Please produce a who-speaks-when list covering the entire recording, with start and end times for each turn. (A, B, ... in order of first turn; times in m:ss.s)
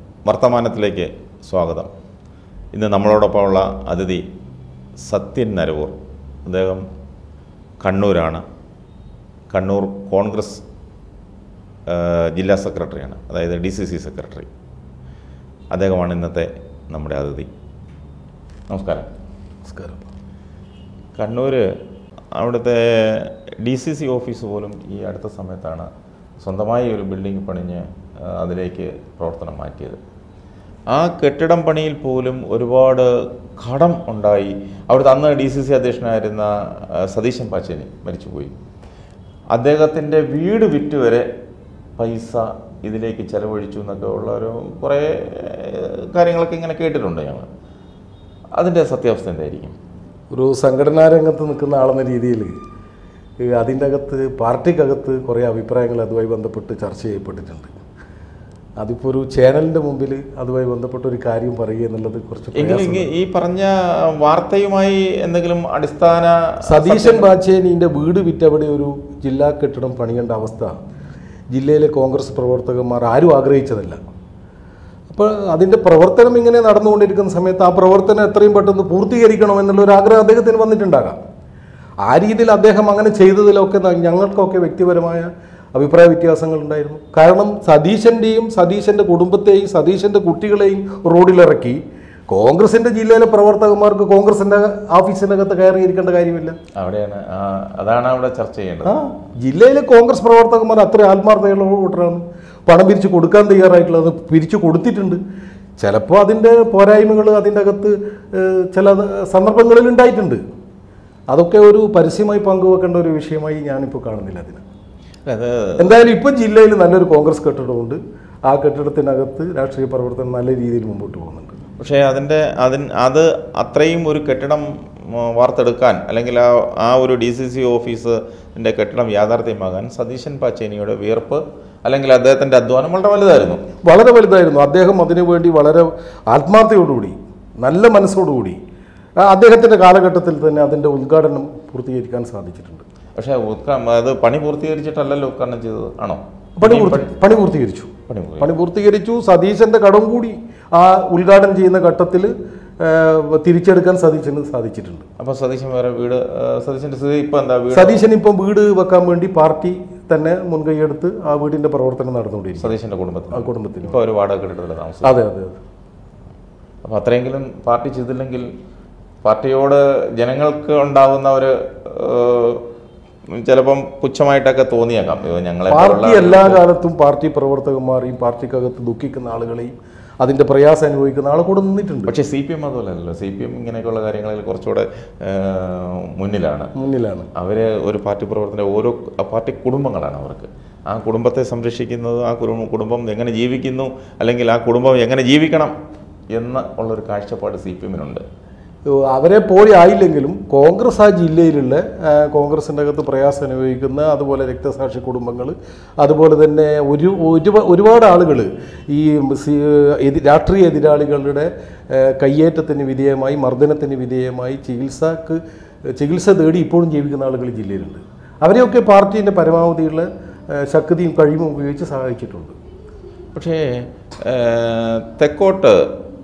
0:00.2-0:01.9 A
0:02.7-0:04.2 A
0:05.0-0:05.9 A
0:06.4-0:06.8 A
0:07.8-0:08.4 A
0:09.5-0:10.6 A
0:11.9-0:14.5 A
0:15.7-0:17.5 A
0:18.7-0:19.1 A
0:19.6-0:20.1 B
0:21.2-0:21.6 A
0:22.3-0:25.9 A
0:26.4-0:30.0 A
0:30.9-0:38.5 A
0:39.5-0:41.3 A
0:42.0-0:47.5 A
0:48.6-0:49.7 A
0:50.3-0:52.5 B
0:53.4-0:57.7 B
0:58.8-1:03.1 B
1:02.5-1:07.3 A
1:06.6-1:10.7 B
1:11.5-1:14.0 B
1:15.1-1:21.2 B
1:22.0-1:31.8 B
1:32.3-1:36.6 B
1:36.8-1:38.9 A
1:38.8-1:45.2 B
1:45.8-1:50.4 B
1:51.3-1:54.6 B
1:55.2-1:56.0 A
1:55.8-2:01.6 B
2:01.8-2:13.6 A
2:13.8-2:18.6 B
2:19.2-2:22.8 B
2:23.2-2:27.1 A
2:26.6-2:35.0 B
2:28.1-2:28.5 A
2:35.2-2:38.0 A
2:37.7-2:42.7 B
2:42.6-2:45.2 A
2:43.3-2:44.0 B
2:45.0-2:45.6 B
2:46.8-2:48.5 A
2:49.2-2:52.6 A
2:53.3-2:56.6 A
2:55.7-3:02.1 B
3:02.1-3:06.7 A
3:06.8-3:07.3 B
3:07.3-3:15.7 A
3:16.3-3:18.2 A
3:18.9-3:35.4 B
3:36.0-3:42.5 B
3:43.3-3:45.9 A